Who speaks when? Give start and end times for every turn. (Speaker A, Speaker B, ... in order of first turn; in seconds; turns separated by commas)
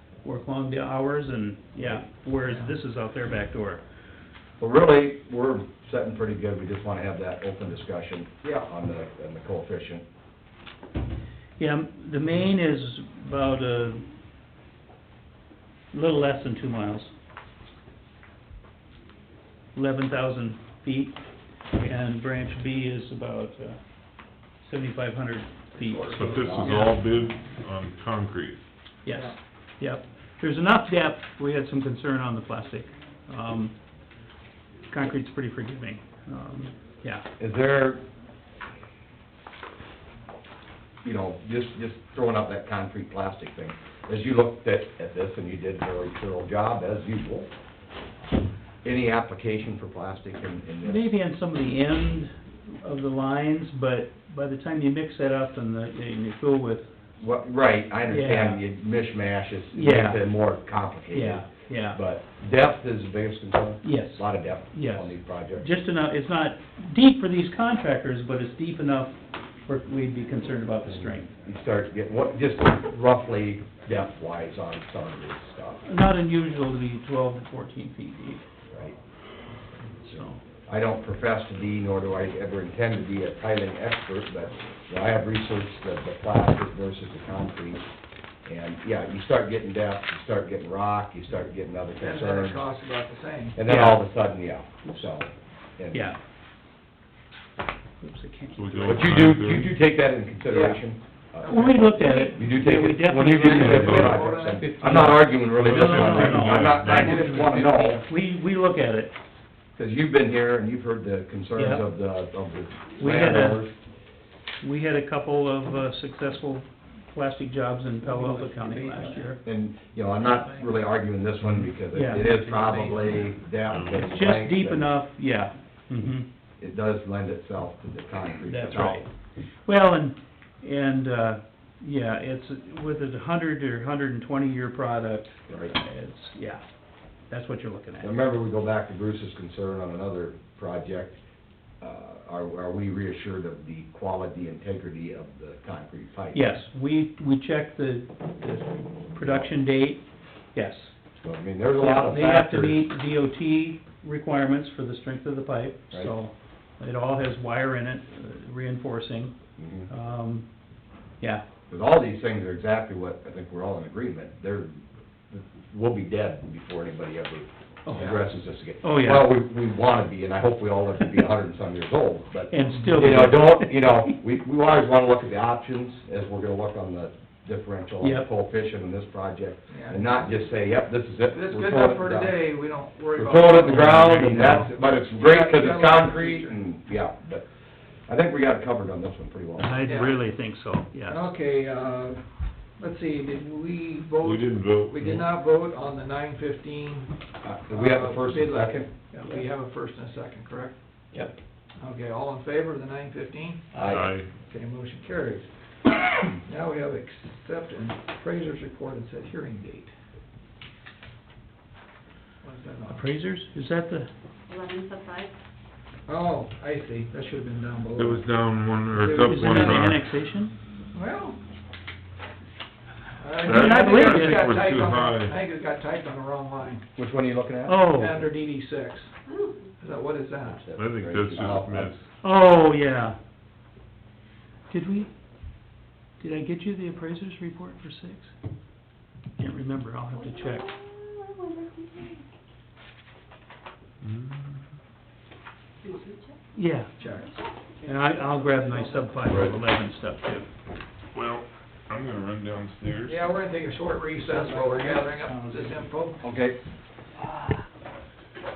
Speaker A: 0.2-3.8, Speaker B: 4.6-10.0, Speaker A: 11.6-14.1, Speaker A: 15.9-17.1, Speaker A: 19.7-21.2, Speaker A: 21.7-23.8, Speaker A: 24.6-26.9, Speaker C: 25.8-26.9, Speaker D: 26.1-28.6, Speaker A: 29.0-33.8, Speaker C: 29.1-29.3, Speaker A: 34.9-37.2, Speaker B: 37.4-38.0, Speaker B: 41.0-47.5, Speaker B: 48.8-51.1, Speaker A: 50.8-56.9, Speaker B: 57.2-65.7, Speaker A: 58.1-58.6, Speaker A: 59.7-60.2, Speaker A: 61.1-62.0, Speaker A: 63.8-71.3, Speaker B: 71.0-75.8, Speaker A: 75.8-78.4, Speaker A: 80.0-80.4, Speaker B: 80.1-87.8, Speaker B: 88.5-92.6, Speaker C: 92.0-93.6, Speaker B: 93.6-96.1, Speaker A: 93.7-94.0, Speaker A: 95.9-96.2, Speaker A: 98.0-99.2, Speaker D: 98.6-99.7, Speaker B: 98.9-108.0, Speaker C: 100.5-100.8, Speaker C: 101.4-102.5, Speaker A: 101.5-109.1, Speaker C: 103.3-104.7, Speaker D: 103.6-104.2, Speaker D: 105.6-107.2, Speaker C: 106.5-107.8, Speaker B: 109.8-113.7, Speaker A: 111.6-111.8, Speaker A: 113.0-113.6, Speaker A: 114.6-119.4, Speaker C: 118.0-119.4, Speaker B: 119.4-124.9, Speaker C: 120.2-120.7, Speaker A: 121.9-122.3, Speaker C: 122.2-123.3, Speaker D: 123.7-124.2, Speaker A: 124.0-126.3, Speaker B: 126.6-129.1, Speaker A: 128.4-129.1, Speaker A: 129.6-136.6, Speaker B: 135.5-135.7, Speaker A: 137.3-138.1, Speaker B: 138.0-141.2, Speaker B: 141.8-146.4, Speaker A: 146.3-150.0, Speaker B: 149.2-149.5, Speaker A: 150.5-150.9, Speaker B: 151.2-152.8, Speaker A: 151.8-159.3, Speaker B: 159.6-159.9, Speaker A: 159.9-160.4, Speaker B: 161.7-164.8, Speaker B: 165.3-182.3, Speaker A: 167.8-168.2, Speaker A: 168.8-169.3, Speaker A: 172.5-173.7, Speaker A: 178.0-178.3, Speaker C: 179.7-180.2, Speaker C: 181.3-186.5, Speaker B: 183.2-187.5, Speaker A: 183.6-184.7, Speaker B: 188.1-189.8, Speaker A: 189.6-191.2, Speaker C: 189.8-190.2, Speaker C: 191.1-192.2, Speaker C: 192.8-197.1, Speaker D: 194.2-195.2, Speaker B: 197.4-198.9, Speaker C: 197.7-200.8, Speaker A: 199.2-199.4, Speaker A: 201.1-201.4, Speaker C: 201.8-203.8, Speaker B: 203.8-204.1, Speaker D: 203.8-204.3, Speaker C: 204.4-205.5, Speaker C: 206.4-209.9, Speaker C: 212.4-213.0, Speaker A: 212.9-214.1, Speaker E: 214.5-215.3, Speaker C: 216.1-218.2, Speaker D: 217.9-220.0, Speaker C: 218.9-219.9, Speaker A: 219.2-220.5, Speaker C: 220.9-221.4, Speaker C: 223.2-226.8, Speaker A: 223.4-224.6, Speaker D: 223.4-225.3, Speaker B: 226.9-227.8, Speaker A: 227.7-228.3, Speaker C: 227.8-229.1, Speaker C: 229.8-230.6, Speaker B: 230.5-232.0, Speaker D: 230.7-232.0, Speaker A: 232.2-233.2, Speaker A: 234.7-235.1, Speaker A: 236.2-238.3, Speaker A: 239.4-240.8, Speaker E: 240.5-242.2, Speaker D: 244.0-244.6, Speaker E: 245.9-246.3, Speaker A: 246.5-246.9, Speaker C: 247.0-249.4, Speaker A: 247.8-250.5, Speaker D: 251.1-253.3, Speaker C: 253.1-256.2, Speaker A: 254.2-255.9, Speaker B: 256.2-256.6, Speaker A: 257.2-257.6